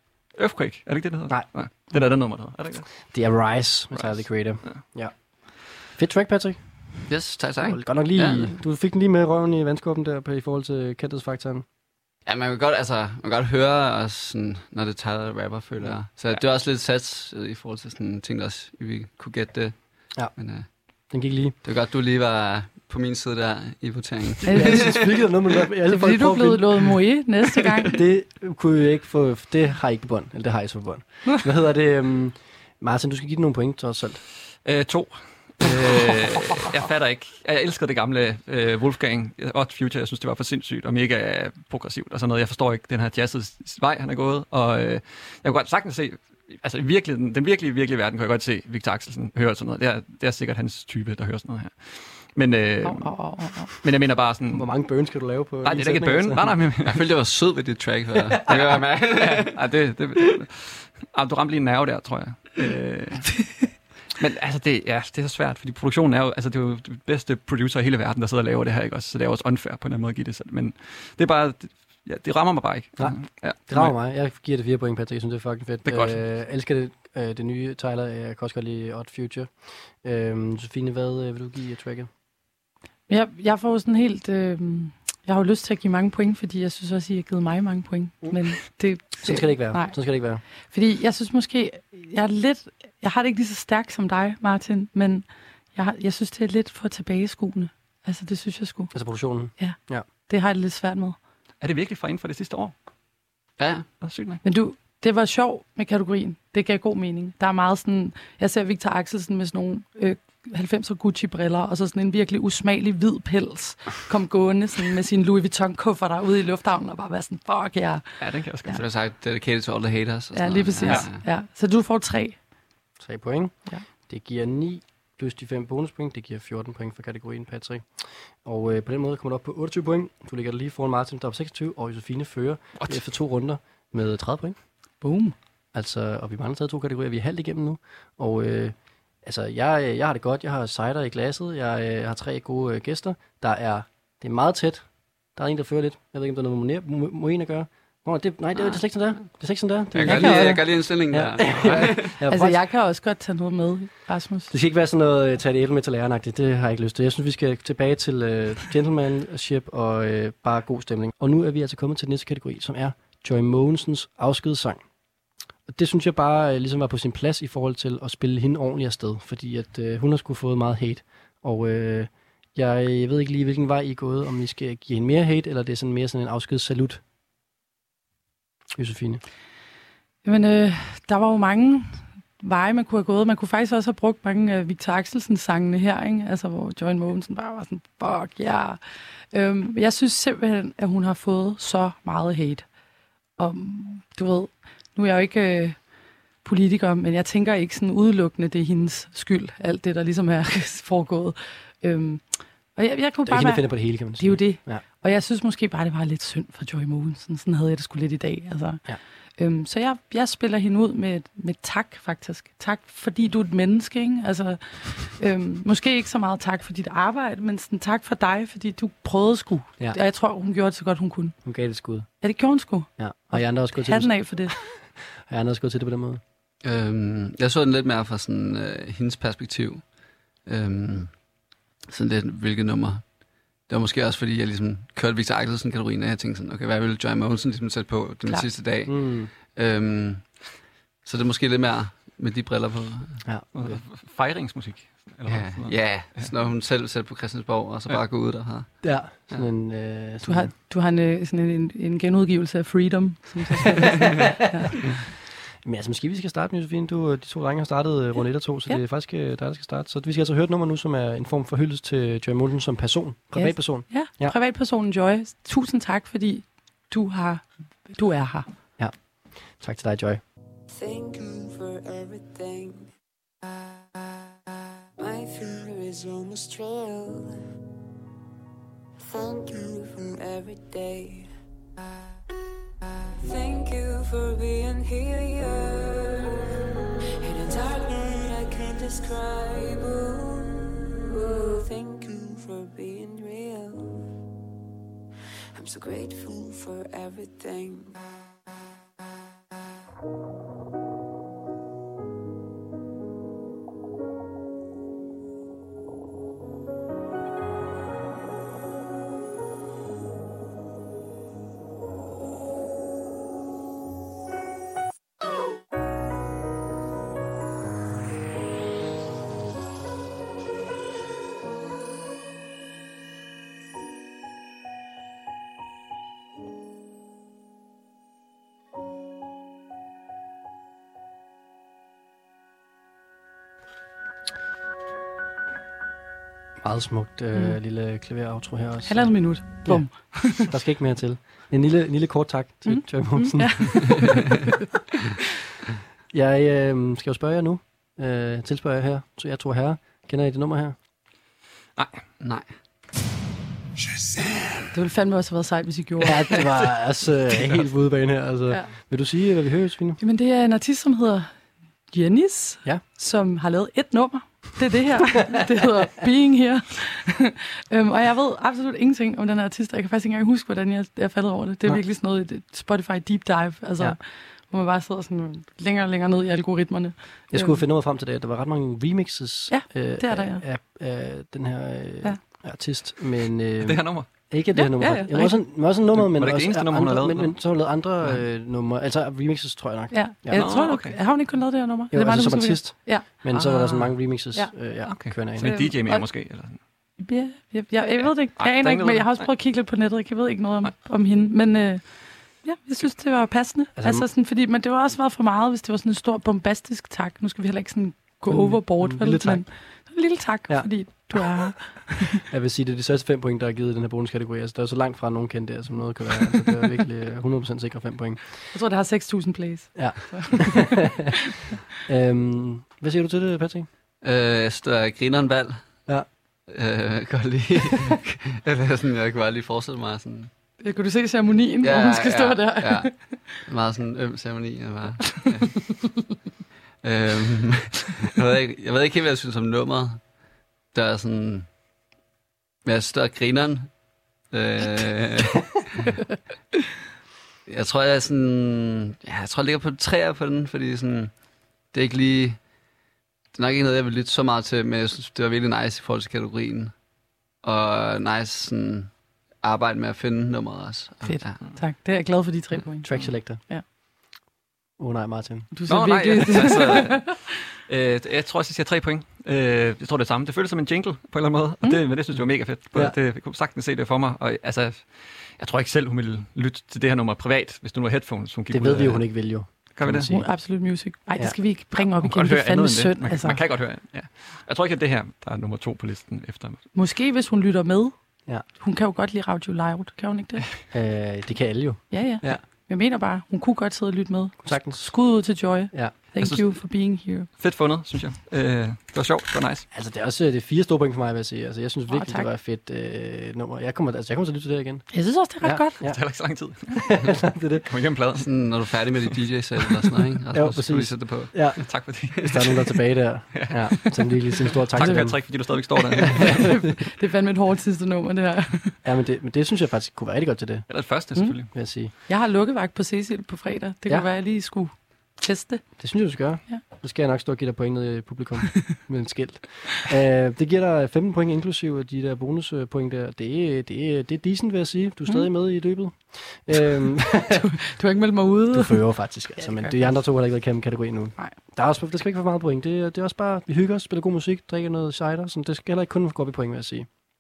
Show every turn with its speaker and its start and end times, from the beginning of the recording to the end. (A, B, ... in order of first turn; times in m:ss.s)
0:00.4-0:02.9 A
0:03.1-0:05.1 B
0:03.9-0:04.8 A
0:05.8-0:06.6 B
0:07.1-0:08.5 C
0:07.6-0:11.6 B
0:12.3-0:20.7 C
0:21.1-0:21.6 B
0:21.6-0:24.9 C
0:24.4-0:25.0 D
0:24.5-0:26.9 B
0:25.9-0:28.0 D
0:27.9-0:34.2 B
0:34.6-0:53.2 A
0:52.8-0:53.7 D
0:53.7-0:54.7 A
0:54.5-0:56.6 B
0:55.6-0:57.0 A
0:56.8-0:59.6 C
0:58.5-1:03.4 A
1:04.2-1:13.9 A
1:13.0-1:22.1 B
1:15.8-1:16.2 A
1:23.1-1:30.0 D
1:29.2-1:30.4 B
1:30.7-1:38.9 D
1:38.9-1:40.1 B
1:39.6-1:41.2 D
1:41.6-1:42.7 A
1:43.6-1:43.9 C
1:44.0-1:44.4 A
1:44.4-1:58.0 D
1:58.2-1:58.8 A
1:58.7-2:01.2 C
2:00.3-2:02.4 D
2:03.0-2:14.6 B
2:15.0-2:15.4 D
2:15.7-2:32.6 B
2:29.9-2:32.1 C
2:30.0-2:30.6 D
2:32.3-2:34.5 D
2:34.5-2:44.8 B
2:45.7-2:57.0 B
2:58.8-2:59.2 B
3:00.2-3:08.8 D
3:09.3-3:12.6 D
3:13.4-3:15.8 D
3:16.4-3:28.8 D
3:23.3-3:24.8 B
3:29.4-3:41.4 D
3:41.4-3:42.1 B
3:42.2-3:44.6 D
3:43.0-3:46.2 B
3:46.6-3:49.9 C
3:50.4-3:51.1 C
3:51.9-3:53.1 C
3:53.7-4:00.5 C
3:58.9-3:59.3 B
4:01.0-4:03.2 C
4:03.2-4:03.8 B
4:03.6-4:06.3 A
4:05.3-4:09.5 C
4:08.8-4:10.5 B
4:10.2-4:14.7 D
4:13.6-4:14.5 B
4:15.6-4:24.4 B
4:23.4-4:28.5 D
4:29.6-4:30.2 B
4:30.7-4:32.9 E
4:35.0-4:37.4 E
4:39.0-4:41.3 E
4:43.2-4:46.5 E
4:47.2-4:54.1 E
4:55.5-4:58.0 E
5:36.6-5:44.1 B
5:38.9-5:40.5 D
5:42.6-5:44.5 D
5:46.1-5:50.8 B
5:52.2-5:52.5 C
5:54.7-5:56.5 D
5:56.0-6:00.0 B
6:00.0-6:01.3 D
6:01.9-6:17.6 D
6:17.3-6:30.5 B
6:19.5-6:20.4 D
6:23.6-6:24.1 A
6:24.5-6:25.4 D
6:25.9-6:28.2 A
6:29.9-6:33.1 D
6:30.3-6:31.0 A
6:31.9-6:35.5 B
6:33.3-6:33.9 A
6:34.8-6:36.6 A
6:35.3-6:36.1 D
6:37.0-6:52.2 D
6:38.4-6:39.3 A
6:43.8-6:44.1 B
6:48.3-6:49.5 B
6:50.5-6:51.5 B
6:52.1-6:58.4 B
6:58.5-7:01.4 D
6:59.8-7:01.1 B
7:01.8-7:03.7 B
7:04.0-7:05.8 C
7:06.5-7:10.3 C
7:10.6-7:13.0 D
7:11.6-7:15.9 C
7:16.8-7:20.1 C
7:20.7-7:21.5 C
7:22.6-7:23.7 C
7:24.3-7:26.0 C
7:27.5-7:31.1 C
7:31.7-7:32.4 C
7:33.4-7:36.7 C
7:37.4-7:38.9 C
7:39.4-7:41.4 C
7:41.0-7:43.6 D
7:42.8-7:43.4 B
7:44.8-7:45.5 B
7:45.5-7:47.1 D
7:45.7-8:00.1 A
7:58.5-8:00.3 B
8:00.1-8:03.4 D
8:02.0-8:06.6 A
8:06.8-8:07.9 D
8:08.6-8:10.5 D
8:10.7-8:12.4 B
8:11.9-8:17.3 D
8:14.4-8:15.0 B
8:16.2-8:16.6 A
8:17.3-8:19.7 A
8:19.7-8:26.0 B
8:21.9-8:22.3 D
8:24.9-8:25.8 D
8:25.8-8:29.1 A
8:26.7-8:27.7 B
8:28.2-8:31.6 C
8:30.3-8:35.3 B
8:31.6-8:32.6 A
8:33.3-8:36.6 A
8:36.0-8:36.5 B
8:36.1-8:38.8 D
8:38.8-8:40.7 B
8:40.7-8:41.5 A
8:41.2-8:45.7 D
8:41.5-8:41.9 B
8:45.8-8:57.5 B
8:57.3-8:58.8 D
8:58.5-9:06.9 B
8:59.4-8:59.9 D